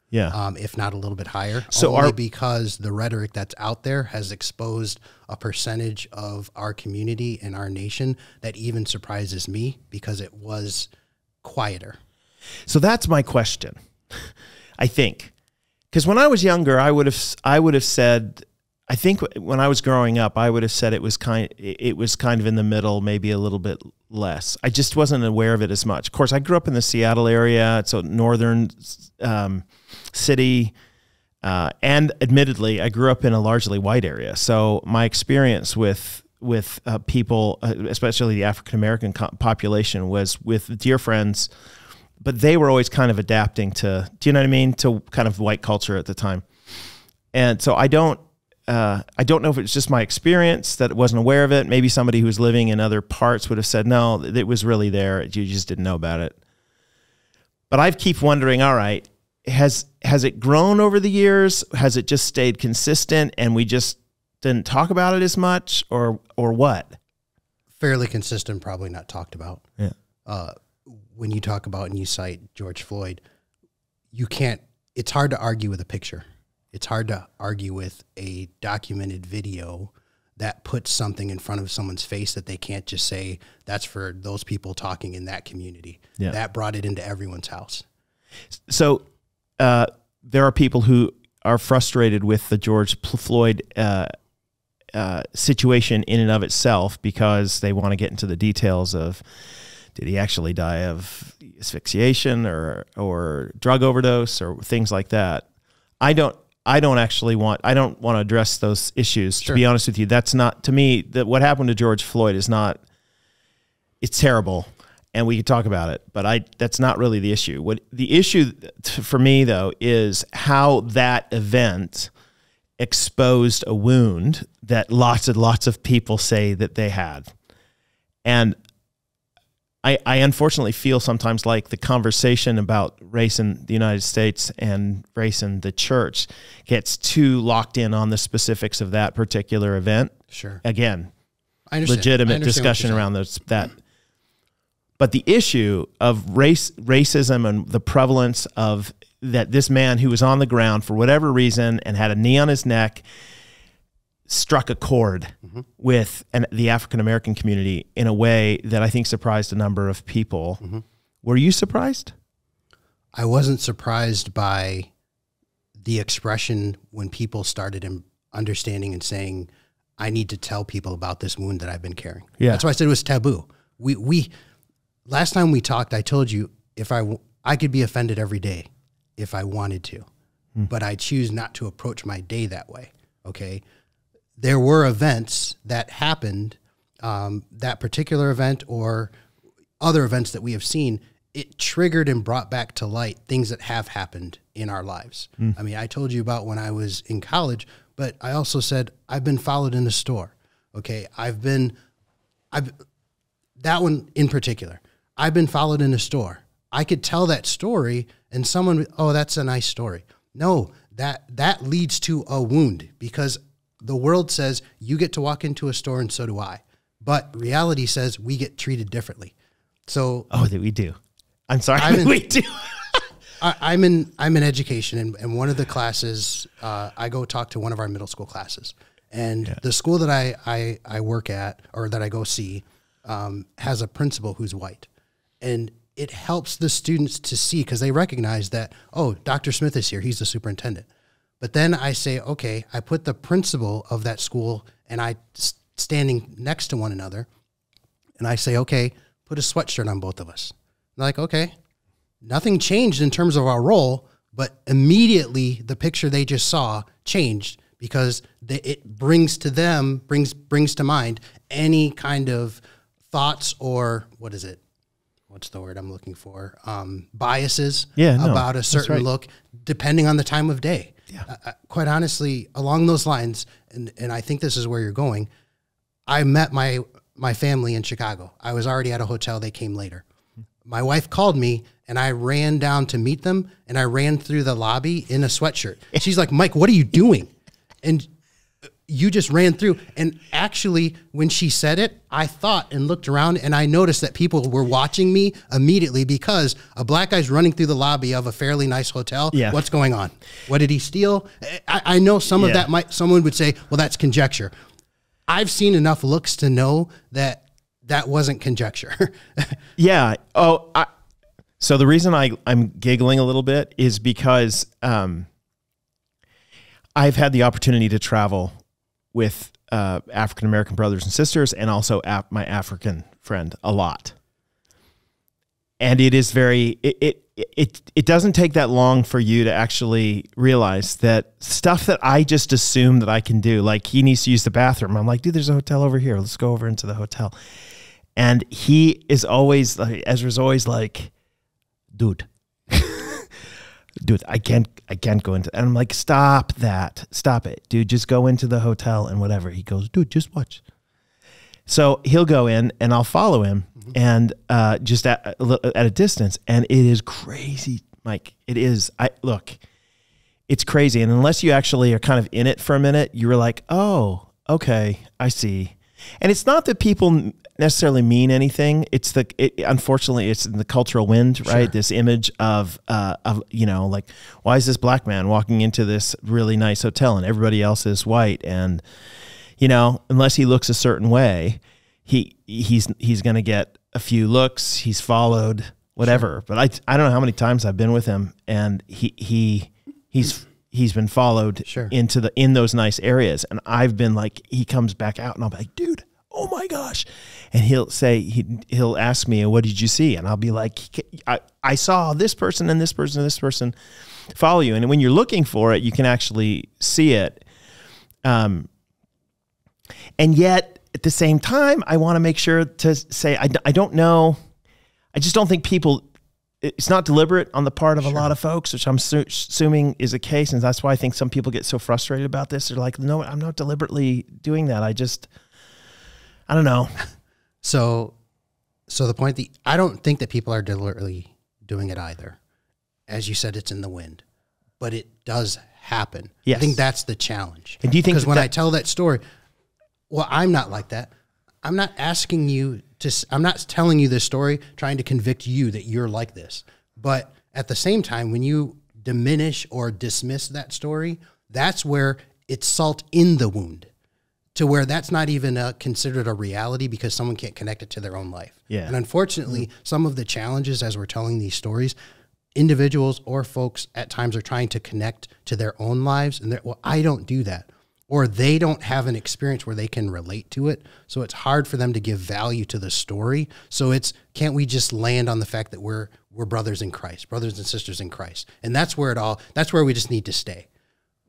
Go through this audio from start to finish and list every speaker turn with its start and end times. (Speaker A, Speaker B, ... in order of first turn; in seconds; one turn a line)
Speaker A: 0.3-10.9
Speaker B: 1.7-2.1
Speaker A: 11.4-12.0
Speaker B: 12.7-15.3
Speaker B: 15.9-30.8
Speaker B: 31.4-41.5
Speaker B: 42.2-46.5
Speaker B: 47.3-56.4
Speaker B: 57.7-67.0
Speaker A: 67.8-69.6
Speaker A: 70.3-73.2
Speaker A: 74.1-87.8
Speaker B: 88.6-89.0
Speaker B: 89.6-94.1
Speaker B: 94.9-99.2
Speaker B: 99.9-105.5
Speaker B: 106.0-112.8
Speaker B: 114.0-122.1
Speaker B: 122.8-127.3
Speaker B: 128.2-128.6
Speaker B: 129.8-141.1
Speaker A: 140.3-140.6
Speaker A: 141.7-143.1
Speaker B: 141.8-143.8
Speaker B: 145.0-153.1
Speaker B: 154.3-160.6
Speaker B: 161.2-162.1
Speaker A: 163.1-164.9
Speaker A: 165.8-174.3
Speaker B: 172.4-172.6
Speaker A: 175.1-180.1
Speaker A: 180.7-183.6
Speaker A: 184.4-189.1
Speaker A: 189.8-201.7
Speaker A: 203.6-219.3
Speaker A: 219.9-220.3
Speaker B: 220.3-221.0
Speaker B: 221.5-223.0
Speaker A: 221.8-222.2
Speaker A: 223.4-234.9
Speaker A: 235.4-240.9
Speaker A: 241.4-247.3
Speaker A: 248.2-251.6
Speaker A: 252.2-262.6
Speaker A: 263.1-264.6
Speaker A: 265.3-275.3
Speaker B: 268.0-269.1
Speaker A: 276.1-280.0
Speaker A: 280.6-287.3
Speaker A: 287.8-288.1
Speaker A: 288.9-304.5
Speaker B: 299.3-299.6
Speaker B: 302.4-302.7
Speaker A: 305.3-309.6
Speaker B: 309.8-310.9
Speaker B: 311.6-315.3
Speaker B: 317.0-318.6
Speaker B: 319.1-324.2
Speaker B: 325.8-337.3
Speaker B: 338.2-341.1
Speaker B: 341.9-343.4
Speaker B: 344.0-350.6
Speaker B: 351.7-359.6
Speaker B: 360.5-378.8
Speaker B: 379.6-403.8
Speaker A: 391.7-391.9
Speaker B: 404.3-407.4
Speaker B: 408.2-408.7
Speaker B: 410.2-414.4
Speaker B: 415.1-416.1
Speaker B: 416.6-425.3
Speaker B: 426.5-427.0
Speaker A: 427.6-428.1
Speaker A: 428.9-432.4
Speaker A: 433.1-434.2
Speaker A: 434.8-439.2
Speaker B: 436.5-436.8
Speaker B: 437.8-438.5
Speaker A: 440.1-441.1
Speaker A: 441.6-453.9
Speaker A: 454.6-461.9
Speaker B: 458.7-458.9
Speaker A: 462.6-480.7